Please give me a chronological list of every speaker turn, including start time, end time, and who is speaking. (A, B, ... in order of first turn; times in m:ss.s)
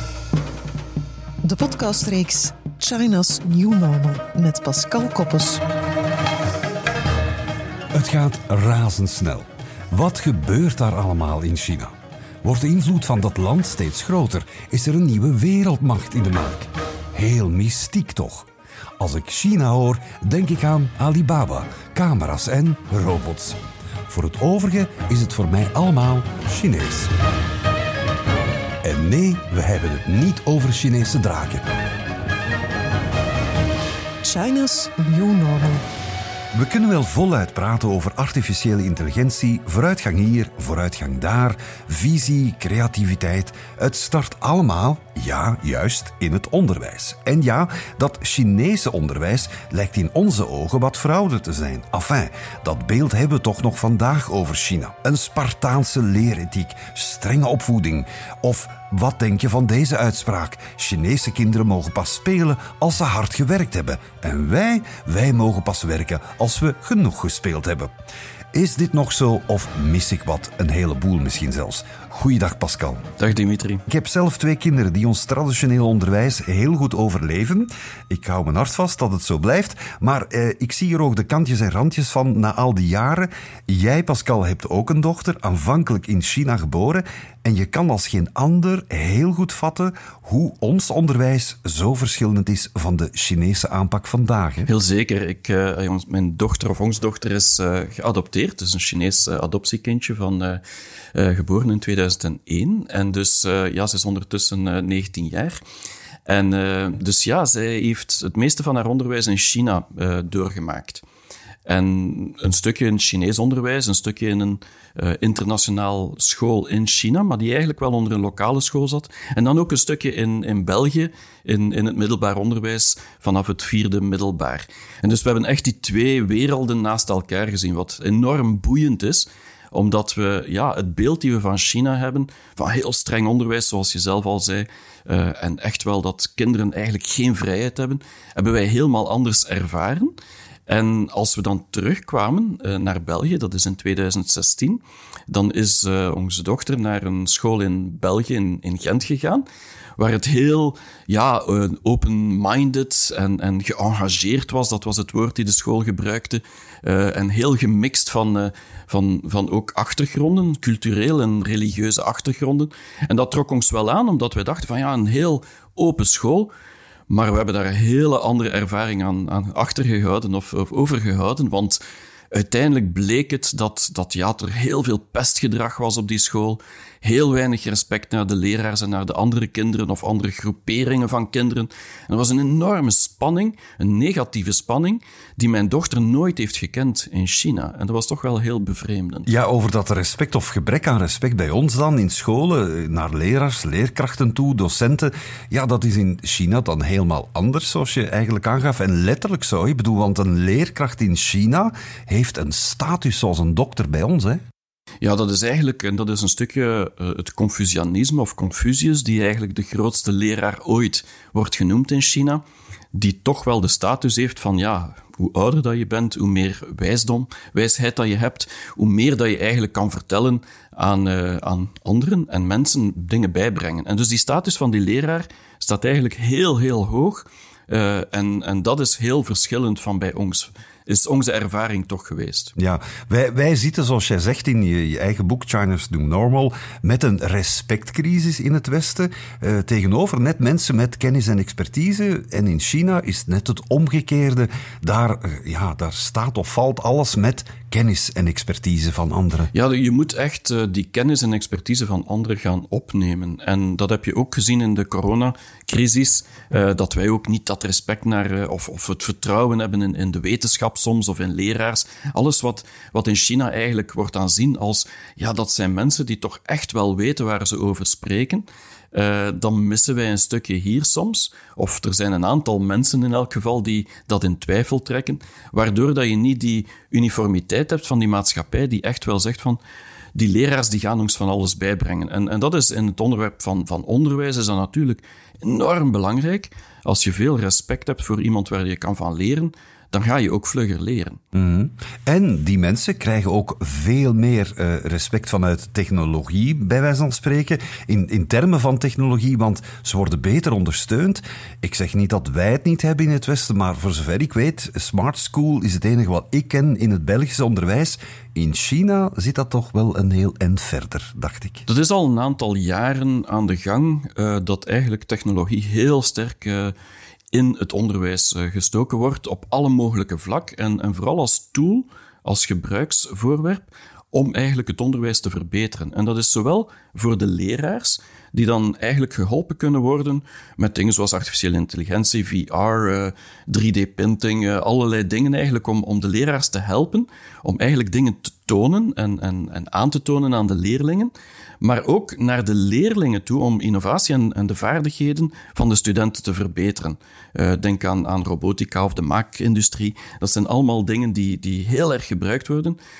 0:01.4-0:05.6 A
0:07.9-0:18.5 B
0:19.0-0:27.1 B
0:28.8-0:31.6 B
0:34.2-0:35.8 A
0:36.5-1:07.9 B
1:08.5-1:13.1 B
1:13.2-1:13.8 C
1:13.9-1:34.7 B
1:34.7-1:40.6 C
1:41.1-1:45.6 C
1:46.3-1:51.0 C
1:51.6-2:20.1 C
2:20.7-2:29.4 C
2:30.0-2:46.5 C
2:47.1-2:51.8 C
2:52.3-3:09.3 C
3:09.2-3:24.4 B
3:25.0-3:32.4 C
3:32.9-3:52.5 C
3:52.6-4:09.5 B
4:09.5-4:39.6 C
4:40.1-4:51.2 C
4:51.3-5:11.6 B
5:11.7-5:16.7 C
5:17.3-5:52.8 C